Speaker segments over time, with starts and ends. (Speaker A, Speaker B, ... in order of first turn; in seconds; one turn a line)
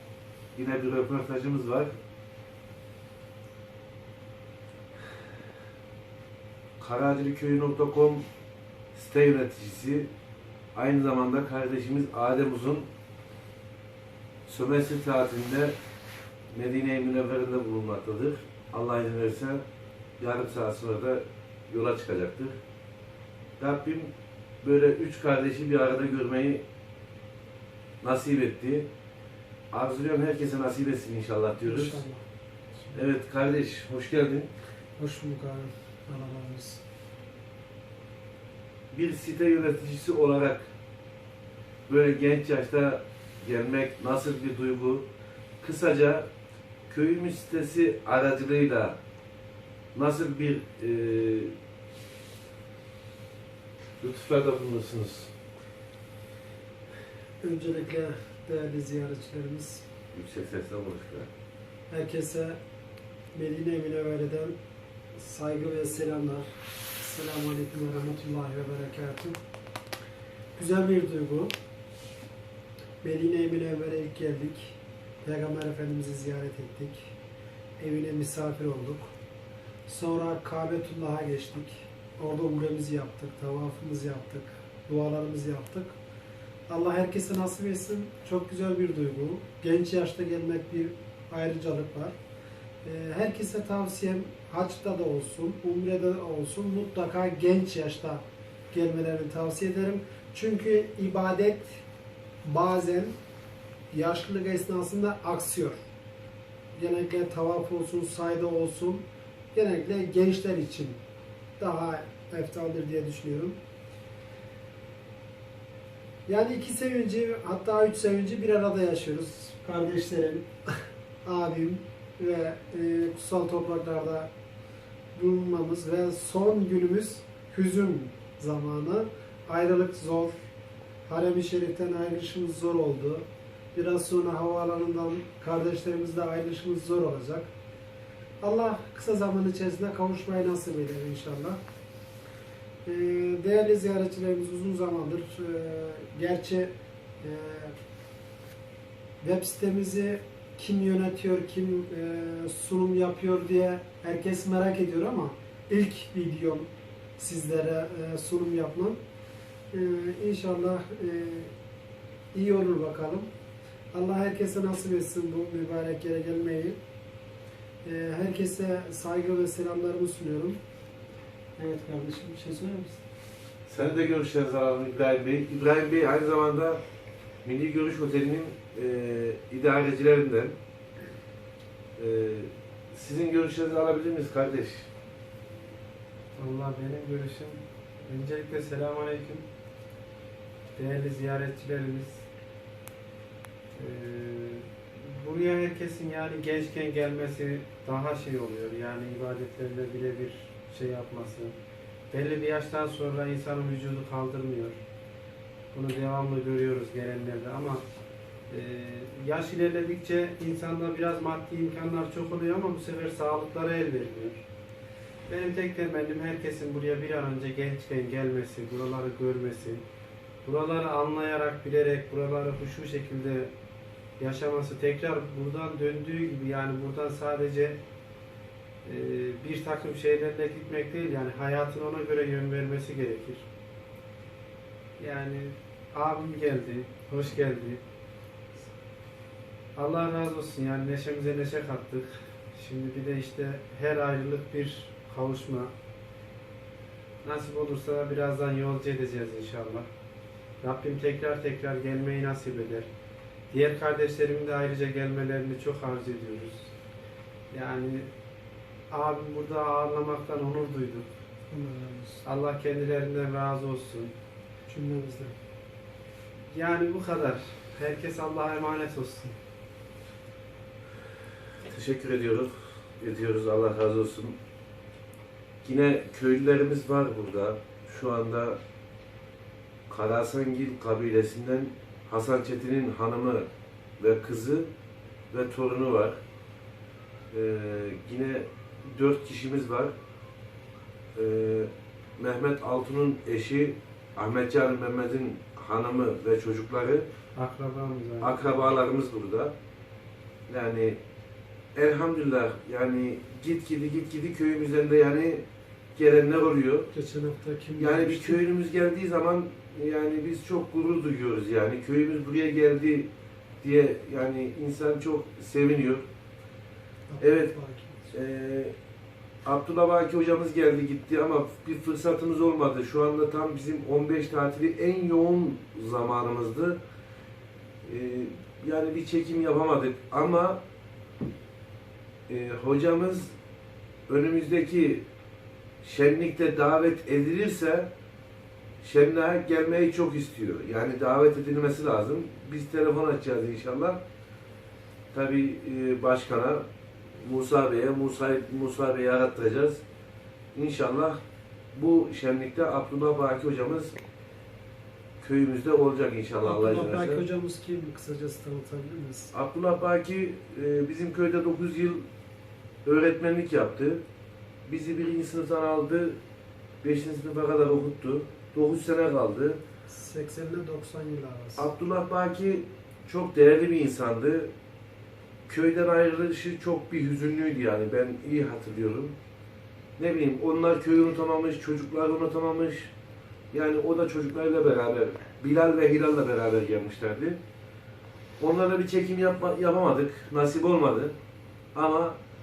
Speaker A: 0.6-1.9
Speaker A: 6.8-8.2
Speaker A: 8.9-10.1
Speaker A: 10.7-12.9
Speaker A: 14.5-15.7
Speaker A: 16.5-19.6
Speaker A: 20.2-22.6
Speaker A: 23.6-24.1
Speaker A: 24.6-26.6
Speaker A: 28.0-28.9
Speaker A: 29.7-32.0
Speaker B: 31.6-32.2
Speaker A: 32.9-34.5
Speaker B: 35.0-36.8
Speaker A: 38.9-40.7
Speaker A: 41.9-45.0
Speaker A: 45.6-46.3
Speaker A: 46.9-49.0
Speaker A: 49.9-51.5
Speaker A: 54.0-55.3
Speaker B: 57.4-59.8
Speaker A: 60.1-61.3
Speaker B: 61.9-62.6
Speaker B: 63.3-64.5
Speaker B: 65.1-66.5
Speaker B: 67.0-69.3
Speaker B: 70.5-71.5
Speaker B: 73.0-77.1
Speaker B: 77.8-79.1
Speaker B: 79.8-86.0
Speaker B: 86.7-92.2
Speaker B: 92.8-101.8
Speaker B: 102.4-103.1
Speaker B: 103.9-105.8
Speaker B: 106.7-111.0
Speaker B: 111.6-113.6
Speaker B: 116.3-120.5
Speaker B: 121.2-124.3
Speaker B: 125.1-130.3
Speaker B: 131.1-137.5
Speaker B: 138.4-141.6
Speaker B: 142.8-147.7
Speaker B: 149.2-159.0
Speaker B: 159.7-161.5
Speaker B: 162.3-163.3
Speaker B: 163.9-166.8
Speaker B: 167.8-170.6
Speaker B: 171.6-173.0
Speaker A: 173.7-176.8
Speaker A: 177.4-180.6
Speaker A: 182.0-184.9
Speaker C: 186.4-189.4
Speaker C: 190.7-192.2
Speaker C: 193.7-201.5
Speaker C: 202.1-204.8
Speaker C: 205.7-207.8
Speaker C: 208.5-214.4
Speaker C: 215.3-219.8
Speaker C: 220.4-223.5
Speaker C: 224.2-227.8
Speaker C: 228.8-233.5
Speaker C: 235.0-237.8
Speaker C: 239.8-245.7
Speaker C: 247.2-249.9
Speaker C: 250.6-252.9
Speaker C: 253.5-256.7
Speaker C: 257.5-258.1
Speaker C: 258.9-261.1
Speaker B: 261.5-262.2
Speaker C: 262.2-264.1
Speaker B: 264.7-265.3
Speaker C: 266.5-269.4
Speaker A: 271.6-274.4
Speaker A: 275.6-278.6
Speaker A: 279.9-283.5
Speaker A: 284.0-284.7
Speaker A: 285.3-286.2
Speaker A: 287.3-289.9
Speaker A: 291.1-297.1
Speaker C: 297.4-298.6
Speaker A: 298.2-299.5
Speaker A: 300.5-301.0
Speaker A: 301.8-305.4
Speaker A: 305.9-306.9
Speaker B: 306.9-308.4
Speaker A: 307.8-313.1
Speaker A: 313.6-316.0
Speaker B: 317.1-318.1
Speaker A: 317.2-317.5
Speaker A: 318.1-318.7
Speaker A: 319.4-326.8
Speaker A: 327.8-330.6
Speaker A: 332.3-333.3
Speaker A: 334.1-335.0
Speaker A: 335.8-337.9
Speaker A: 338.8-344.0
Speaker A: 345.1-346.6
Speaker A: 347.2-349.8
Speaker A: 350.5-351.2
Speaker A: 351.7-353.9
Speaker A: 355.2-357.2
Speaker B: 356.4-359.3
Speaker A: 359.3-362.0
Speaker A: 362.8-364.0
Speaker A: 364.7-366.2
Speaker A: 366.8-369.6
Speaker B: 369.9-371.7
Speaker A: 371.6-374.5
Speaker A: 375.5-379.1
Speaker A: 380.0-382.9
Speaker A: 383.5-387.4
Speaker A: 388.4-391.1
Speaker A: 391.7-392.2